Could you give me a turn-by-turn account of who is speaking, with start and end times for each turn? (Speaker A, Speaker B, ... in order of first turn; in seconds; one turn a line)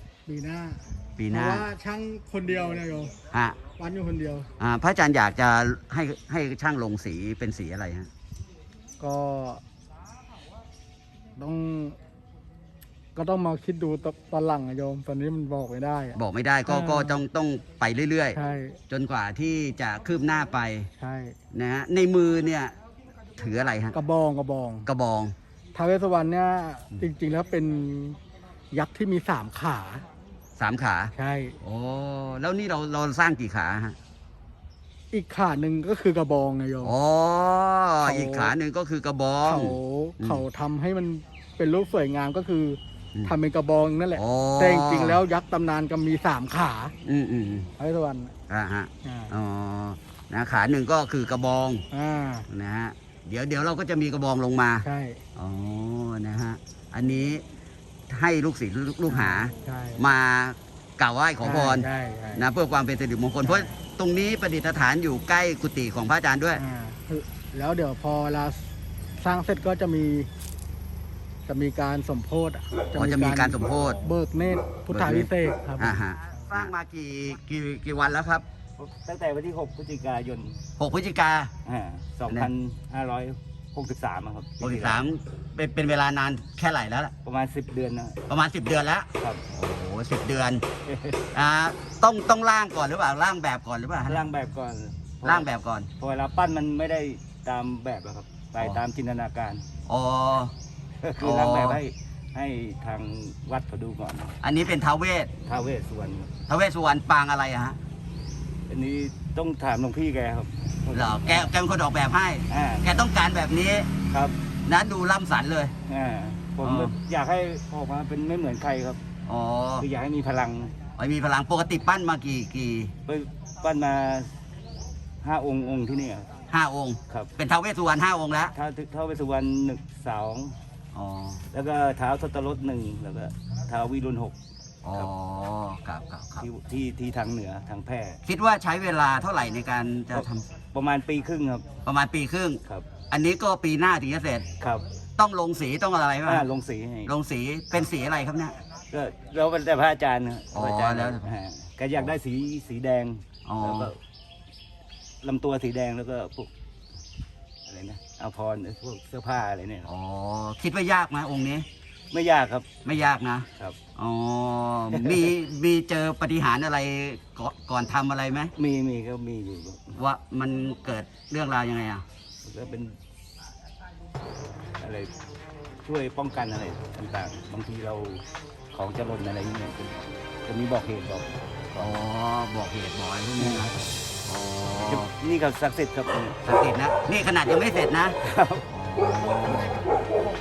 Speaker A: 0.2-3.1
Speaker B: 1.2-1.7
Speaker B: 3.3-3.6
Speaker A: 3.8-4.5
Speaker B: 4.6-8.1
Speaker A: 9.0-9.6
Speaker A: 11.3-12.0
Speaker A: 13.2-17.2
Speaker B: 16.1-18.4
Speaker A: 18.3-18.8
Speaker B: 18.9-20.9
Speaker A: 21.0-21.4
Speaker B: 21.5-22.7
Speaker B: 23.4-23.9
Speaker A: 23.9-24.9
Speaker B: 24.9-25.3
Speaker A: 25.7-28.2
Speaker A: 28.7-30.1
Speaker B: 30.6-34.0
Speaker A: 31.1-31.6
Speaker A: 35.1-36.9
Speaker B: 36.8-40.4
Speaker A: 38.0-38.5
Speaker A: 39.4-46.9
Speaker B: 44.1-45.2
Speaker B: 47.0-47.7
Speaker A: 47.8-48.3
Speaker B: 48.5-51.8
Speaker A: 49.0-49.3
Speaker A: 51.9-52.5
Speaker B: 52.5-57.4
Speaker A: 54.8-55.2
Speaker B: 58.1-66.6
Speaker A: 59.1-60.0
Speaker A: 61.4-62.5
Speaker A: 63.4-63.7
Speaker A: 66.5-70.3
Speaker A: 71.5-76.0
Speaker B: 72.9-74.1
Speaker B: 74.9-78.4
Speaker C: 78.8-80.6
Speaker B: 80.8-81.5
Speaker C: 81.6-85.0
Speaker B: 84.6-87.1
Speaker C: 87.2-88.2
Speaker B: 88.3-90.6
Speaker C: 90.9-91.2
Speaker B: 91.3-94.2
Speaker C: 94.0-95.5
Speaker B: 95.2-95.9
Speaker C: 96.0-99.6
Speaker B: 99.9-100.5
Speaker C: 101.0-104.3
Speaker B: 101.2-101.8
Speaker B: 104.4-105.3
Speaker C: 105.4-106.3
Speaker B: 106.5-107.8
Speaker C: 108.7-111.5
Speaker B: 110.9-114.0
Speaker C: 112.5-112.9
Speaker C: 114.1-114.3
Speaker B: 114.7-115.7
Speaker C: 115.9-119.0
Speaker B: 116.6-116.9
Speaker B: 119.2-119.9
Speaker C: 119.8-120.7
Speaker B: 121.0-122.9
Speaker C: 123.0-124.4
Speaker C: 125.2-126.3
Speaker B: 126.5-128.5
Speaker C: 128.5-130.5
Speaker B: 130.9-131.4
Speaker C: 131.5-134.3
Speaker B: 134.8-136.5
Speaker C: 136.4-138.2
Speaker B: 138.2-140.4
Speaker C: 140.1-141.7
Speaker B: 141.8-144.5
Speaker B: 145.2-146.5
Speaker C: 146.2-147.1
Speaker B: 147.1-148.6
Speaker C: 148.9-154.0
Speaker B: 150.5-151.3
Speaker B: 153.4-153.9
Speaker C: 155.2-156.5
Speaker C: 157.7-159.9
Speaker B: 159.8-161.7
Speaker C: 162.1-162.8
Speaker B: 162.8-168.5
Speaker C: 164.9-165.3
Speaker C: 168.6-170.0
Speaker B: 169.9-172.0
Speaker C: 172.4-173.0
Speaker C: 174.8-175.1
Speaker C: 175.8-181.9
Speaker B: 181.8-185.1
Speaker C: 183.4-183.8
Speaker C: 184.8-186.4
Speaker B: 186.4-188.2
Speaker C: 188.2-188.6
Speaker B: 188.7-189.8